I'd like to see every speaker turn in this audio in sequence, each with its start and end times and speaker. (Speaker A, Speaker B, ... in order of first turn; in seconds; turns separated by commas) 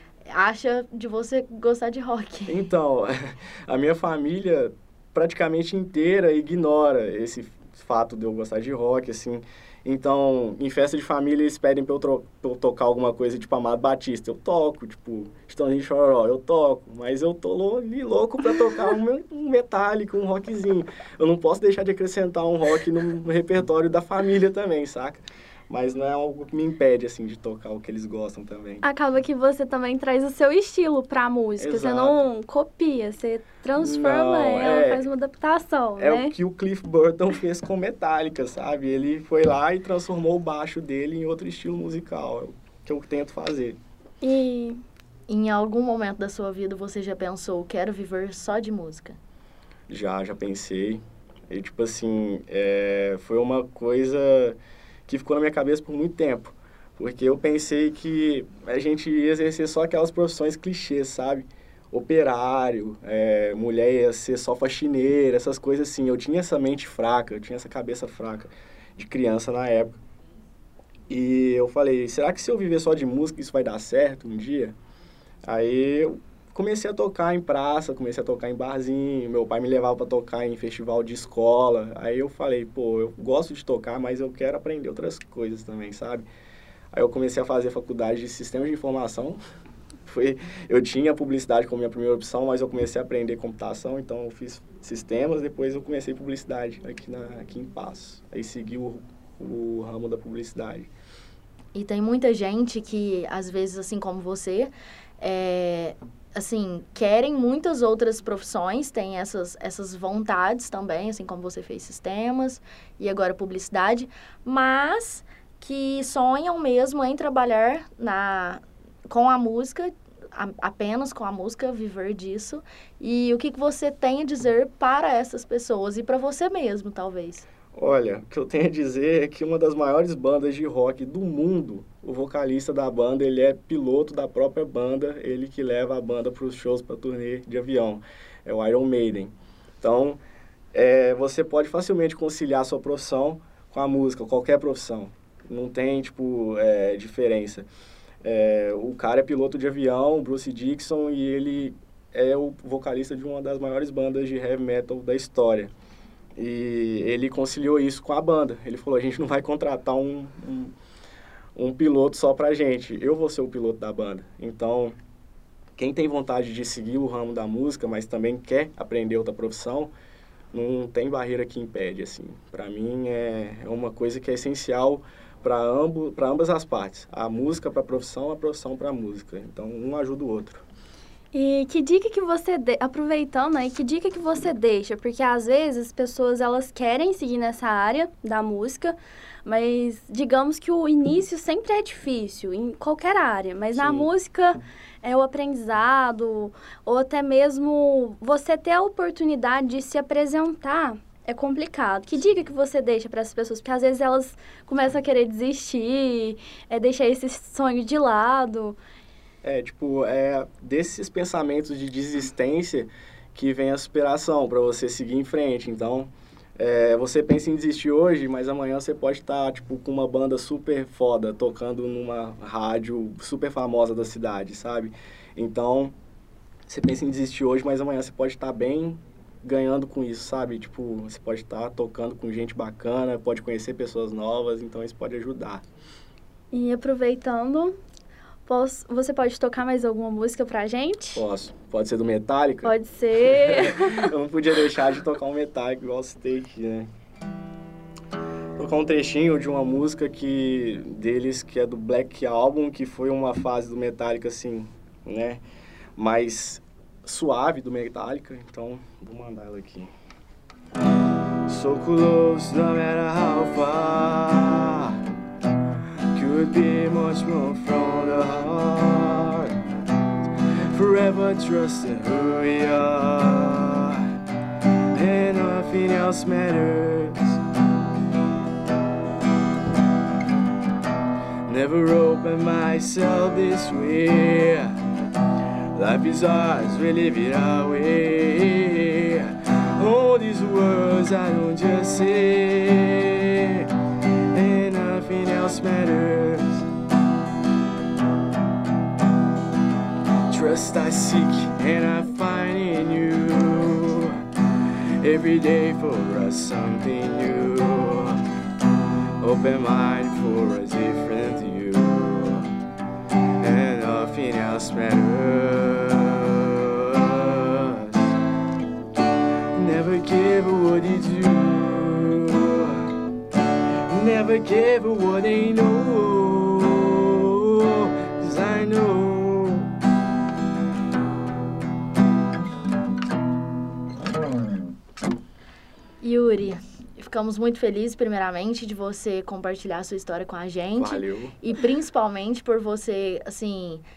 Speaker A: 0.2-2.7, Speaker B: 2.5-28.9, Speaker C: 28.8-36.3, Speaker B: 31.6-32.2, Speaker B: 33.8-35.1, Speaker B: 36.0-43.8, Speaker C: 44.2-44.8, Speaker A: 45.3-49.2, Speaker B: 49.9-70.0, Speaker B: 71.1-74.8, Speaker B: 75.5-86.3, Speaker B: 86.9-89.4, Speaker B: 90.0-100.9, Speaker A: 101.8-127.5, Speaker B: 127.7-140.2, Speaker B: 140.7-147.7, Speaker B: 148.2-155.7, Speaker B: 156.4-160.7, Speaker B: 161.6-165.0, Speaker B: 165.8-169.9, Speaker B: 170.5-180.6, Speaker C: 181.3-208.8, Speaker B: 193.8-194.1, Speaker B: 209.4-225.9, Speaker B: 226.7-235.6, Speaker C: 236.5-237.8, Speaker C: 238.5-241.2, Speaker B: 241.2-246.9, Speaker C: 242.6-244.1, Speaker B: 248.6-255.4, Speaker B: 256.0-259.9, Speaker B: 261.5-265.0, Speaker B: 266.1-269.6, Speaker B: 270.3-274.1, Speaker B: 274.8-277.4, Speaker B: 281.5-284.8, Speaker B: 285.8-296.7, Speaker B: 300.3-308.3, Speaker B: 309.2-312.5, Speaker B: 313.4-318.2, Speaker B: 319.6-322.9, Speaker B: 323.9-329.7, Speaker A: 336.0-343.8, Speaker B: 340.8-341.4